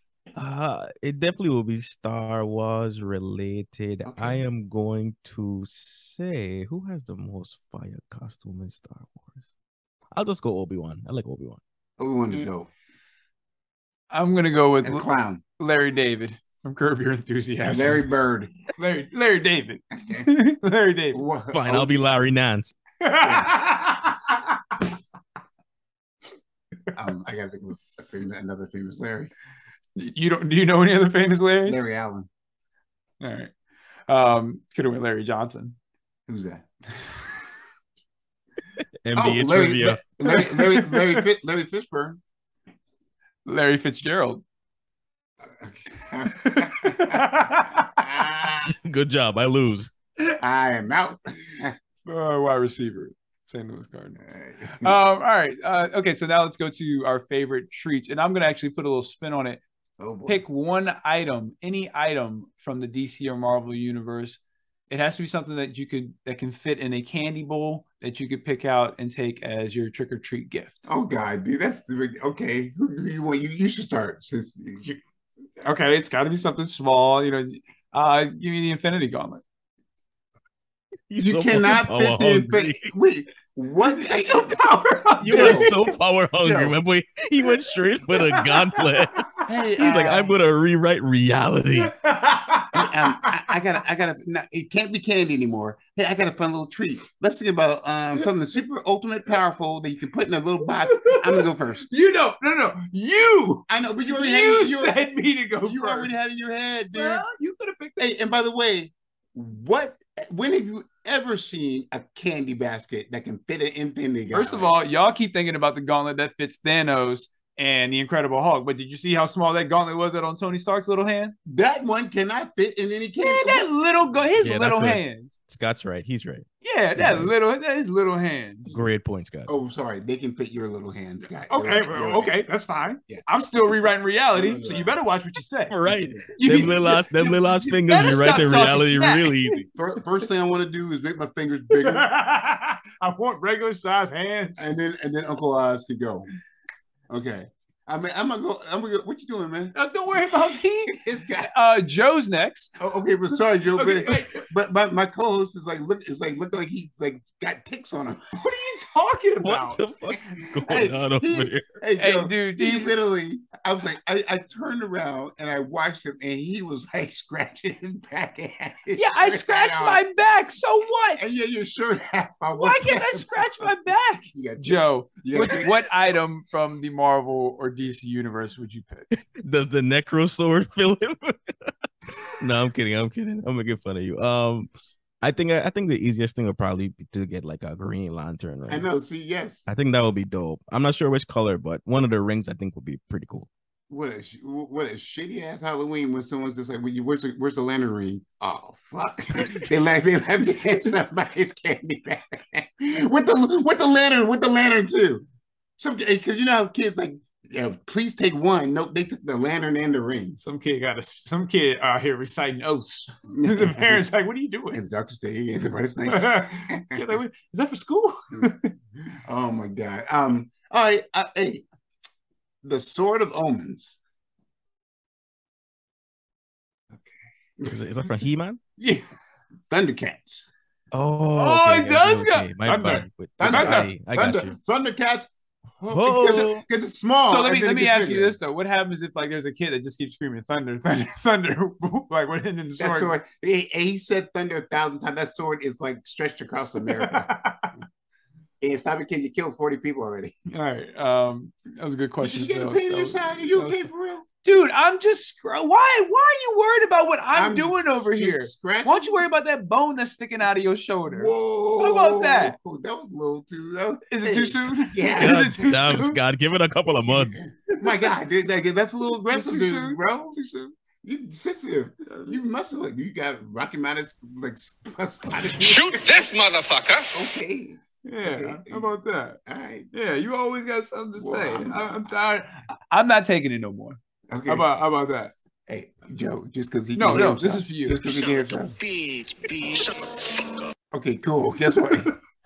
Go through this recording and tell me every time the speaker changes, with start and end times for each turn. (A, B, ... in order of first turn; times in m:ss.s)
0:00.4-0:09.4 A
0:04.0-0:04.4 B
0:10.1-0:11.6 A
0:12.0-0:12.7 B
0:14.1-0:15.1 C
0:14.8-0:15.4 B
0:15.6-0:18.0 C
0:17.6-0:18.5 B
0:18.8-0:21.2 C
0:21.1-0:22.0 B
0:21.5-0:22.7 A
0:23.0-0:24.4 C
0:23.2-0:23.5 B
0:26.9-0:29.3 B
0:30.0-0:31.8 C
0:31.6-0:32.3 B
0:33.2-0:33.5 C
0:34.1-0:35.8 C
0:36.3-0:36.6 B
0:39.0-0:40.0 A
0:39.2-0:42.2 B
0:40.2-0:41.2 C
0:43.4-0:44.4 C
0:45.5-0:48.7 B
0:46.4-0:47.9 C
0:48.7-0:49.9 A
0:50.4-0:51.7 B
0:52.0-0:54.3 C
0:54.2-0:55.0 B
0:54.8-0:59.6 C
1:00.0-1:00.4 B
1:00.2-1:10.8 C
1:10.9-1:14.8 B
1:15.6-1:19.4 C
1:21.1-1:22.9 A
1:21.2-1:24.6 B
1:23.8-1:25.8 C
1:25.2-1:31.9 A
1:25.2-1:25.7 B
1:26.4-1:26.7 B
1:28.1-1:29.1 C
1:29.4-1:30.3 B
1:31.8-1:33.4 C
1:32.7-1:41.9 B
1:40.8-1:46.1 C
1:43.7-1:45.0 B
1:45.6-1:47.2 B
1:46.9-1:48.0 C
1:48.0-1:54.7 B
1:54.3-2:01.4 C
2:01.5-2:03.7 B
2:03.2-2:05.3 C
2:04.4-2:07.3 A
2:06.6-2:08.7 C
2:08.7-2:09.5 A
2:09.5-2:12.4 B
2:11.5-2:15.8 C
2:14.3-2:15.0 B
2:15.7-2:19.6 A
2:15.9-2:16.7 B
2:16.3-2:19.6 C
2:19.7-2:22.1 B
2:21.7-2:24.6 C
2:24.6-2:26.3 B
2:27.1-2:29.7 B
2:29.7-2:32.7 C
2:30.9-2:31.5 B
2:32.8-2:38.3 B
2:33.7-2:34.4 C
2:38.3-2:39.8 C
2:39.4-2:41.7 A
2:40.7-2:50.0 B
2:42.0-2:42.9 C
2:48.9-2:51.3 C
2:51.2-2:53.7 B
2:52.6-2:59.1 C
2:54.3-2:55.9 B
2:59.3-3:01.7 A
3:02.4-3:04.7 A
3:05.2-3:08.9 A
3:08.7-3:09.7 B
3:09.7-3:13.5 A
3:13.9-3:25.2 B
3:25.8-3:30.4 B
3:30.4-3:34.8 C
3:33.3-3:34.0 B
3:34.7-3:37.0 B
3:36.1-3:38.7 C
3:39.2-3:41.6 B
3:42.6-3:44.0 B
3:47.6-3:48.6 A
3:48.8-3:49.0 C
3:49.7-3:50.5 B
3:50.9-3:54.6 A
3:51.3-3:53.9 C
3:53.4-3:55.3 B
3:55.8-3:58.4 B
3:55.9-3:56.6 A
3:57.3-4:03.1 C
4:02.8-4:07.3 B
4:06.9-4:07.7 C
4:08.6-4:10.3 B
4:10.5-4:13.9 C
4:12.2-4:14.2 B
4:14.4-4:22.6 C
4:17.3-4:19.1 B
4:21.1-4:26.0 B
4:24.1-4:26.2 C
4:25.2-4:27.4 A
4:27.3-4:30.3 B
4:27.7-4:28.1 C
4:29.3-4:30.7 C
4:31.0-4:36.1 B
4:32.1-4:32.4 C
4:35.6-4:37.1 D
4:37.1-4:38.9 B
4:38.0-4:39.4 C
4:39.4-4:39.9 B
4:39.9-4:45.3 C
4:41.2-4:41.9 B
4:44.3-4:44.7 B
4:45.7-4:48.7 B
4:46.9-4:48.0 C
4:48.0-4:50.7 D
4:50.9-4:52.1 B